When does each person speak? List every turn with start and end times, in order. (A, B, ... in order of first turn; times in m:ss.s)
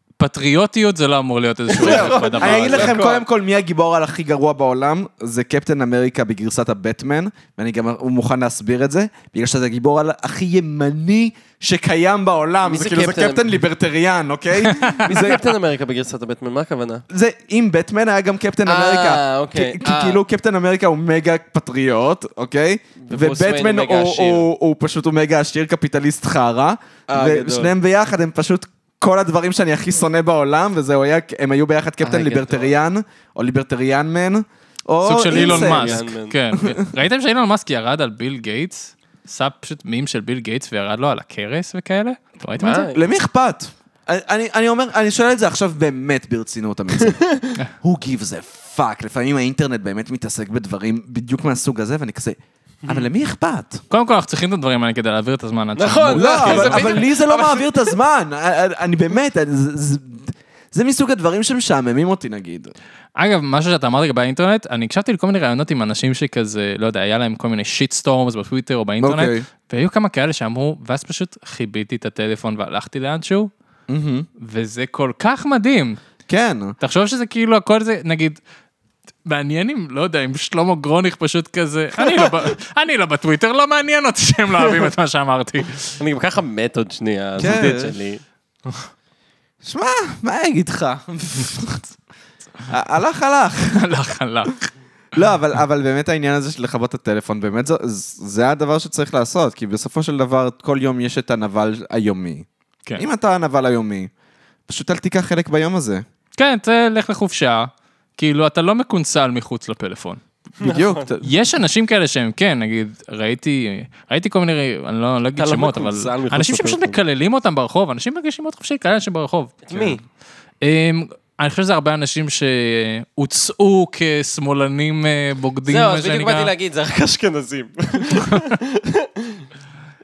0:00.2-0:03.0 A
0:01.7-0:03.2 B
0:01.7-0:15.4 C
0:12.6-0:13.5 B
0:14.6-0:15.1 A
0:15.0-0:17.0 B
0:17.1-0:36.9 C
0:18.6-0:20.2 B
0:23.0-0:24.5 B
0:27.1-0:27.7 B
0:32.0-0:32.7 B
0:35.0-0:42.9 A
0:35.3-0:36.3 B
0:42.6-0:43.0 B
0:42.9-0:47.2 C
0:47.0-0:47.6 B
0:47.8-0:53.8 C
0:53.9-0:57.0 A
0:55.8-0:57.9 B
0:56.1-1:02.7 C
1:03.2-1:13.5 A
1:09.0-1:09.4 C
1:13.9-1:14.3 C
1:14.4-1:16.0 A
1:16.3-1:16.8 C
1:16.8-1:18.4 A
1:19.2-1:26.0 A
1:26.0-1:28.2 B
1:27.4-1:28.0 C
1:29.6-1:31.9 C
1:32.7-1:33.9 C
1:33.7-1:34.7 A
1:35.1-1:44.1 C
1:44.7-1:46.0 C
1:46.4-1:50.2 A
1:50.6-1:51.1 B
1:50.6-1:51.2 C
1:51.2-1:59.9 A
1:55.4-1:57.0 B
1:59.7-2:00.0 B
2:00.6-2:06.5 A
2:05.7-2:09.4 B